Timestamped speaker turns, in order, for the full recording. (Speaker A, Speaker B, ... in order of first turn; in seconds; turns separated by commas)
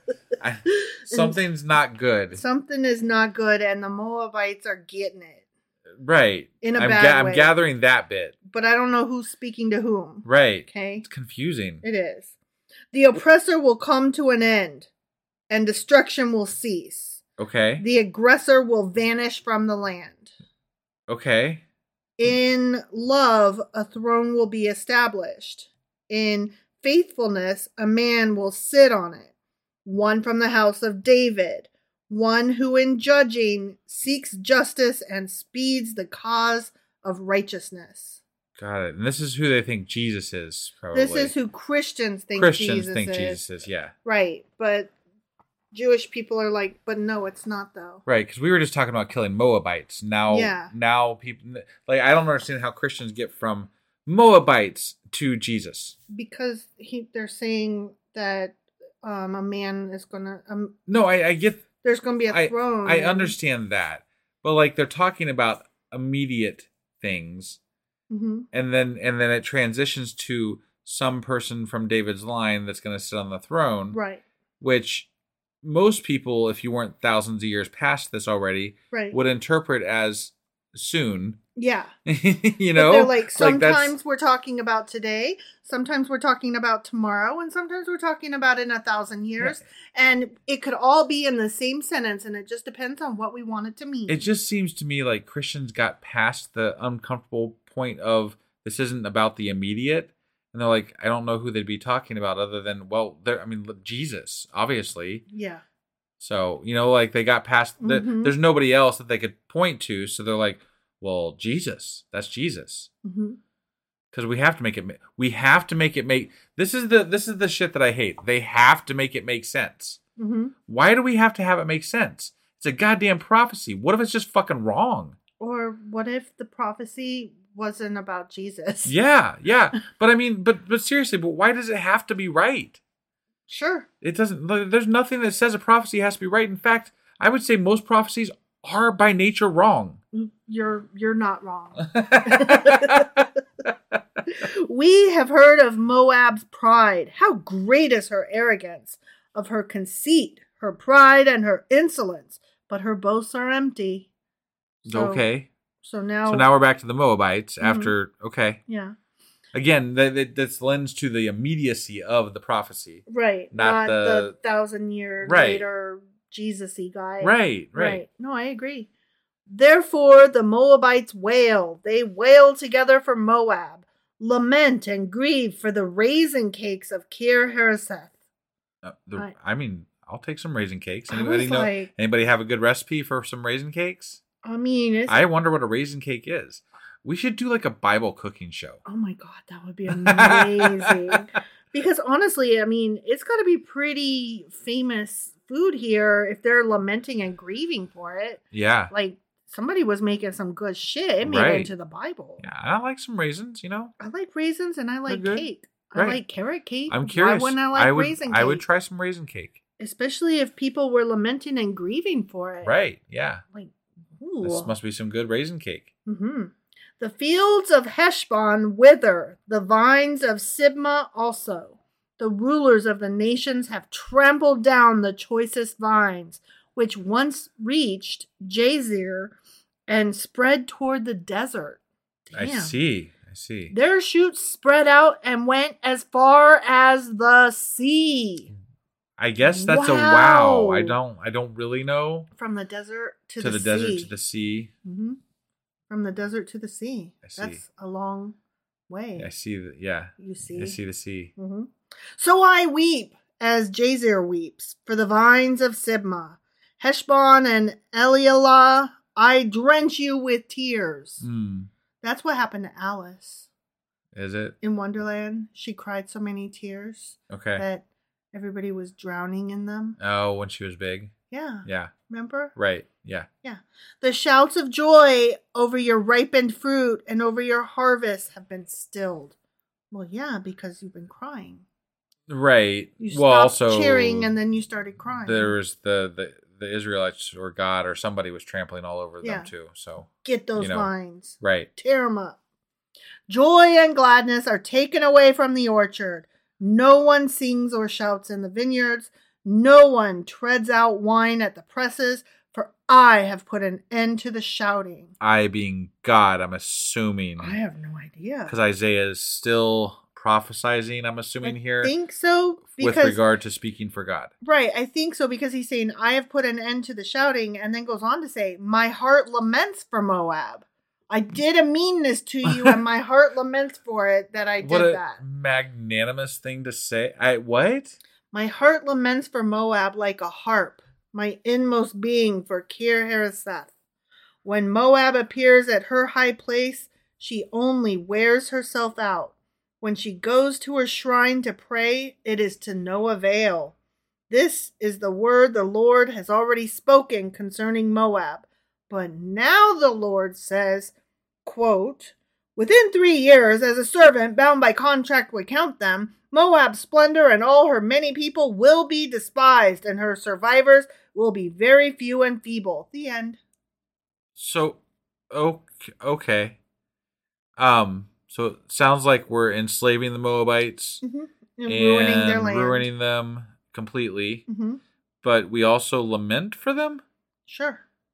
Speaker A: 0.4-2.4, Speaker B: 1.1-1.4, Speaker B: 2.3-5.4, Speaker A: 6.0-8.4, Speaker B: 6.6-7.5, Speaker B: 8.5-11.1, Speaker A: 10.2-11.8, Speaker B: 11.8-12.3, Speaker B: 12.9-14.9, Speaker B: 15.5-17.2, Speaker A: 17.4-17.9, Speaker B: 17.8-20.3, Speaker A: 21.1-21.6, Speaker B: 22.2-29.3, Speaker B: 29.9-38.2, Speaker A: 38.6-41.3, Speaker B: 40.9-43.4, Speaker A: 42.4-43.9, Speaker B: 44.0-44.9, Speaker B: 45.7-48.0, Speaker A: 48.1-56.0, Speaker B: 50.3-50.7, Speaker B: 56.1-60.8, Speaker A: 60.9-61.7, Speaker B: 61.8-63.4, Speaker A: 62.3-67.6, Speaker B: 68.1-68.5, Speaker A: 68.5-74.0, Speaker B: 73.9-74.2, Speaker A: 74.6-75.1, Speaker A: 75.6-81.4, Speaker B: 78.9-79.2, Speaker B: 81.6-81.9, Speaker A: 82.1-84.0, Speaker B: 82.8-94.3, Speaker A: 94.1-105.2, Speaker B: 105.3-105.6, Speaker A: 106.2-112.9, Speaker B: 107.8-108.3, Speaker B: 113.0-113.4, Speaker A: 114.1-120.0, Speaker B: 120.2-120.5, Speaker A: 120.7-125.2, Speaker B: 125.4-128.9, Speaker A: 128.8-132.8, Speaker B: 133.5-133.9, Speaker A: 134.0-140.0, Speaker B: 140.1-143.2, Speaker A: 142.0-143.0, Speaker B: 144.3-154.1, Speaker A: 154.9-155.5, Speaker B: 154.9-155.3, Speaker B: 155.8-156.5, Speaker A: 156.3-158.6, Speaker B: 157.6-157.9, Speaker B: 158.7-158.9, Speaker A: 159.5-164.3, Speaker B: 163.1-168.9, Speaker A: 165.2-165.7, Speaker A: 167.2-168.0, Speaker B: 169.5-178.1, Speaker A: 178.8-184.2, Speaker B: 181.1-181.9, Speaker B: 184.4-185.2, Speaker A: 185.1-188.8, Speaker B: 188.9-202.4, Speaker A: 189.9-191.4, Speaker A: 198.5-198.9, Speaker A: 201.2-201.7, Speaker A: 202.4-203.9, Speaker B: 204.0-208.6, Speaker A: 205.1-206.3, Speaker A: 206.9-209.6, Speaker B: 209.8-212.8, Speaker A: 212.6-213.4, Speaker B: 213.5-214.8, Speaker A: 214.4-215.9, Speaker B: 216.1-229.4, Speaker B: 229.9-232.8, Speaker A: 232.3-233.8, Speaker B: 233.7-238.5, Speaker A: 239.2-242.3, Speaker B: 239.4-241.0, Speaker B: 242.4-244.1, Speaker A: 243.4-244.7, Speaker B: 244.8-245.2, Speaker B: 245.9-248.4, Speaker A: 247.2-247.6, Speaker B: 248.9-249.3, Speaker A: 249.2-251.3, Speaker B: 250.2-250.8, Speaker B: 251.4-261.2, Speaker A: 261.2-261.7, Speaker B: 262.0-263.5, Speaker A: 264.1-264.6, Speaker B: 264.6-270.0, Speaker A: 267.3-267.6, Speaker A: 270.0-271.1, Speaker B: 271.3-272.5, Speaker A: 271.6-271.9, Speaker A: 272.6-273.3, Speaker B: 273.4-279.4, Speaker B: 279.9-281.6, Speaker A: 282.3-284.4, Speaker B: 283.0-285.6, Speaker A: 285.2-291.7, Speaker B: 289.2-289.5, Speaker B: 290.2-292.4, Speaker B: 293.3-305.1, Speaker A: 305.2-307.6, Speaker B: 307.4-308.5, Speaker A: 308.5-311.9, Speaker B: 311.4-313.2, Speaker A: 312.7-314.3, Speaker B: 314.4-325.2, Speaker A: 324.6-328.0, Speaker B: 328.3-333.7, Speaker B: 334.4-343.7, Speaker B: 344.3-350.9, Speaker B: 351.4-363.4, Speaker A: 364.4-366.6, Speaker A: 367.6-371.0, Speaker B: 371.0-372.9, Speaker A: 371.7-374.4, Speaker B: 374.5-374.8, Speaker A: 375.2-377.0, Speaker B: 377.5-377.8